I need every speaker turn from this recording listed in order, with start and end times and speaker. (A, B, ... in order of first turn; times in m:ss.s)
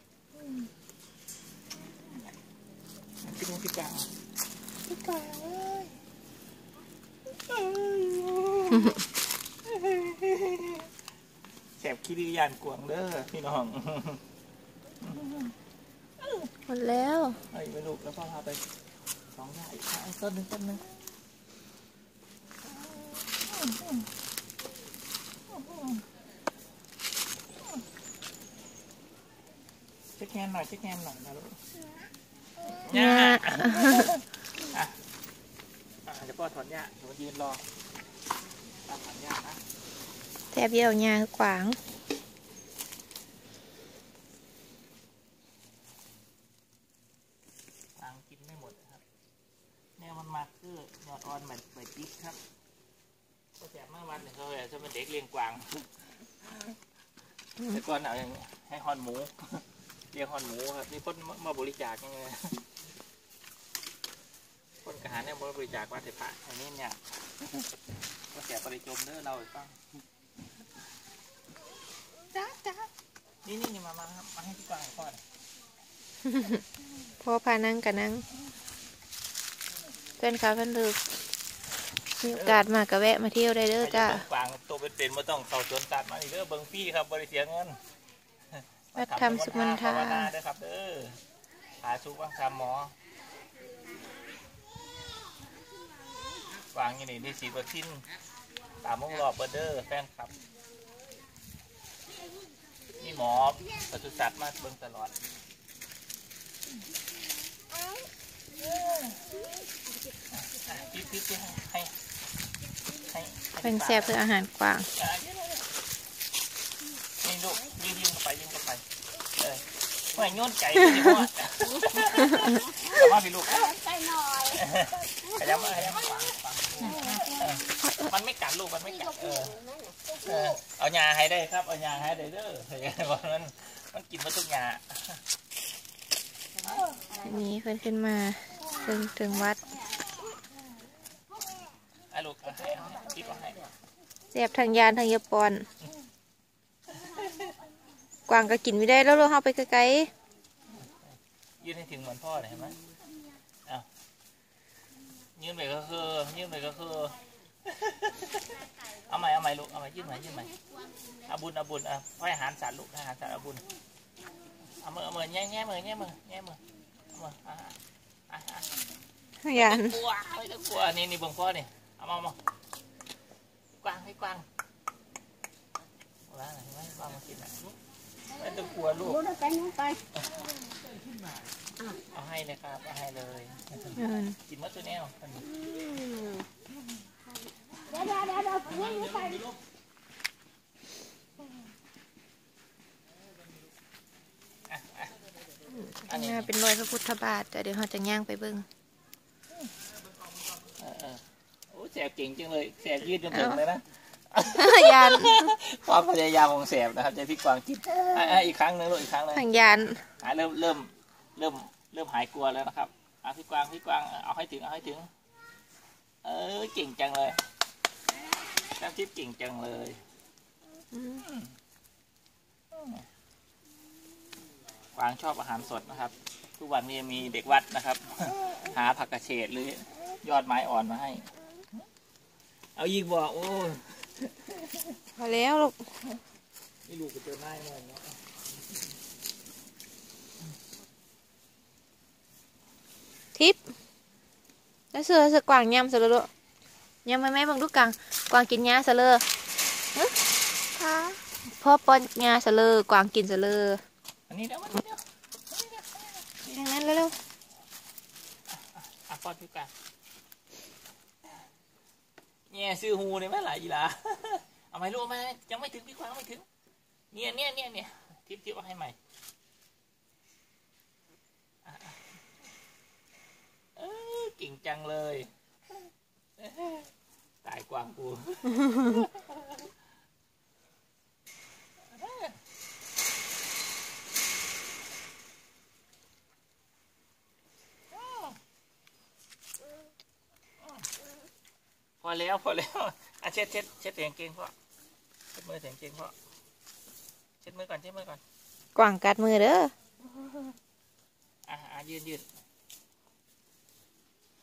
0:00.4-0:00.7 A
0:03.2-0:04.1 A
0:04.8-0:06.0 A
0:07.5-0:09.1 A
0:08.7-0:09.0 B
0:09.6-0:10.9 A
0:11.8-0:14.2 A
0:15.0-0:15.6 A
0:16.2-0:16.5 A
0:16.7-0:17.4 B
0:17.5-0:18.6 A
0:19.3-0:20.8 A
0:22.8-0:24.1 A
0:25.5-0:26.1 A
0:30.2-0:31.6 A
0:32.7-0:35.0 A
0:32.9-0:34.1 B
0:36.1-0:37.6 A
0:38.8-0:39.6 A
0:40.5-0:41.8 B
0:48.0-0:49.0 A
0:50.0-0:52.4 A
0:53.6-0:56.0 A
0:57.6-1:02.6 A
1:04.8-1:07.7 A
1:08.3-1:09.8 A
1:12.3-1:12.9 A
1:13.4-1:15.2 A
1:16.2-1:16.6 B
1:17.2-1:18.2 B
1:20.2-1:21.0 B
1:22.2-1:24.2 B
1:22.3-1:22.7 A
1:23.8-1:27.8 A
1:28.5-1:31.2 A
1:29.0-1:30.3 B
1:31.8-1:32.9 A
1:36.7-1:38.1 A
1:38.8-1:40.3 A
1:43.0-1:45.2 A
1:48.6-1:49.4 A
1:50.3-1:51.9 A
1:52.9-1:54.2 A
1:53.6-1:54.9 B
1:55.0-1:55.7 A
1:57.2-1:58.8 A
1:59.4-2:03.8 A
2:01.6-2:04.7 C
2:04.5-2:09.5 A
2:05.2-2:05.8 C
2:06.8-2:07.7 C
2:07.8-2:08.1 B
2:08.8-2:10.6 C
2:10.2-2:15.2 A
2:16.6-2:17.4 C
2:16.6-2:17.0 A
2:17.2-2:19.6 B
2:22.1-2:23.6 A
2:24.3-2:25.7 B
2:26.9-2:27.5 A
2:28.3-2:30.1 B
2:31.6-2:32.8 A
2:35.4-2:40.5 A
2:40.8-2:41.2 C
2:41.3-2:43.7 A
2:44.7-2:46.6 A
2:47.1-2:48.8 A
2:49.4-2:50.0 B
2:49.5-2:52.4 A
2:53.8-2:54.5 A
2:56.3-2:57.8 A
2:58.4-2:59.2 A
2:58.6-3:00.0 C
3:00.2-3:00.5 A
3:02.1-3:05.5 A
3:03.9-3:04.4 B
3:05.4-3:06.5 C
3:07.8-3:09.4 C
3:08.9-3:09.5 A
3:14.7-3:15.2 A
3:15.7-3:18.7 B
3:16.1-3:16.5 A
3:20.6-3:29.5 A
3:23.3-3:23.6 B
3:24.5-3:25.5 B
3:29.3-3:30.1 B
3:30.2-3:35.1 A
3:36.2-3:37.4 A
3:38.6-3:40.0 A
3:40.9-3:41.3 B
3:41.2-3:41.5 A
3:42.7-3:43.0 A
3:45.0-3:51.3 A
3:52.8-3:55.0 A
3:55.2-3:55.9 B
3:56.8-3:58.2 A
4:03.4-4:03.6 B
4:04.9-4:06.3 B
4:07.0-4:09.2 B
4:10.8-4:13.8 B
4:14.3-4:16.3 A
4:16.4-4:17.2 B
4:18.5-4:19.7 A
4:22.5-4:26.5 A
4:27.1-4:29.0 A
4:31.6-4:32.2 A
4:33.8-4:35.3 A
4:36.4-4:36.9 A
4:37.4-4:39.7 A
4:41.9-4:42.4 A
4:47.9-4:48.4 A
4:52.0-4:54.5 A
4:55.3-4:56.2 A
4:57.4-4:58.2 A
4:58.8-4:59.7 B
5:01.5-5:02.3 A